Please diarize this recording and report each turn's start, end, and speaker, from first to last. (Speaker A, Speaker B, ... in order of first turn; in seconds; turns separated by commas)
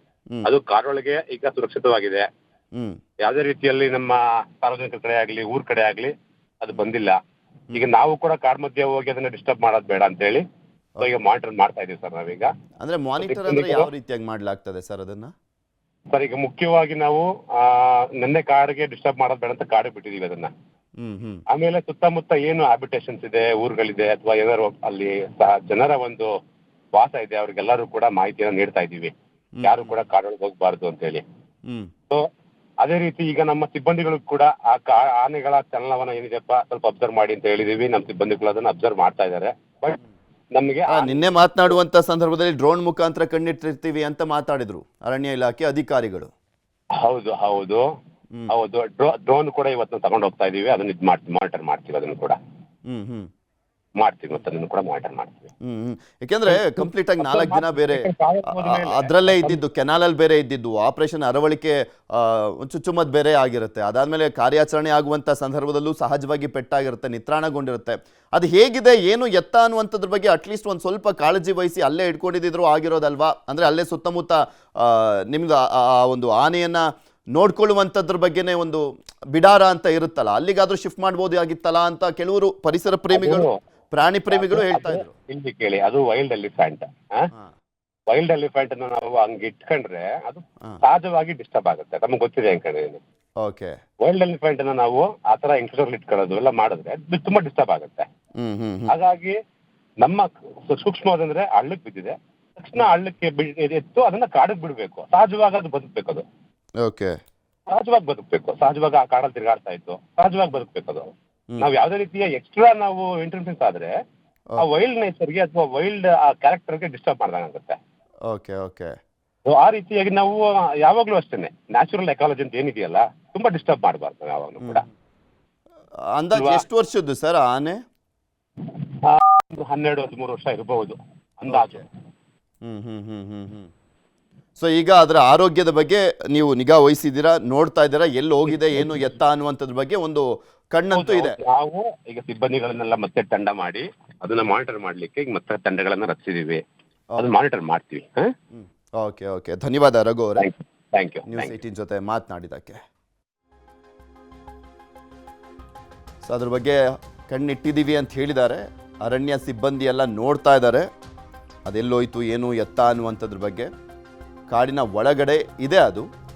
Speaker A: 0.4-2.2, Speaker B: 2.7-3.0, Speaker A: 3.2-7.2, Speaker A: 7.7-10.4, Speaker A: 11.0-12.5, Speaker B: 12.8-15.3, Speaker A: 13.2-13.9, Speaker A: 16.1-20.5, Speaker B: 21.0-21.4, Speaker A: 21.5-26.3, Speaker A: 26.9-29.1, Speaker B: 29.6-30.0, Speaker A: 29.6-31.2, Speaker A: 32.8-40.0, Speaker A: 40.5-41.7, Speaker B: 40.9-46.3, Speaker A: 47.0-47.8, Speaker A: 48.5-52.4, Speaker B: 52.9-53.3, Speaker A: 54.0-55.5, Speaker B: 55.6-76.8, Speaker A: 56.5-59.6, Speaker B: 77.3-85.1, Speaker A: 83.1-83.5, Speaker A: 84.3-87.3, Speaker A: 88.1-93.0, Speaker B: 93.4-93.8, Speaker A: 94.0-98.0, Speaker B: 98.4-98.9, Speaker A: 98.9-99.4, Speaker A: 100.0-106.2, Speaker B: 106.8-107.2, Speaker A: 107.7-111.1, Speaker A: 111.6-113.9, Speaker A: 114.6-117.8, Speaker B: 118.3-118.9, Speaker A: 119.5-124.8, Speaker B: 126.1-127.8, Speaker A: 126.3-126.6, Speaker A: 129.0-131.8, Speaker B: 131.5-131.8, Speaker B: 132.6-133.7, Speaker B: 134.6-141.3, Speaker A: 138.5-139.1, Speaker A: 140.9-146.6, Speaker A: 147.2-148.3, Speaker B: 148.5-150.5, Speaker A: 150.4-151.6, Speaker B: 151.3-152.8, Speaker B: 156.2-160.9, Speaker B: 161.7-163.7, Speaker B: 164.5-166.1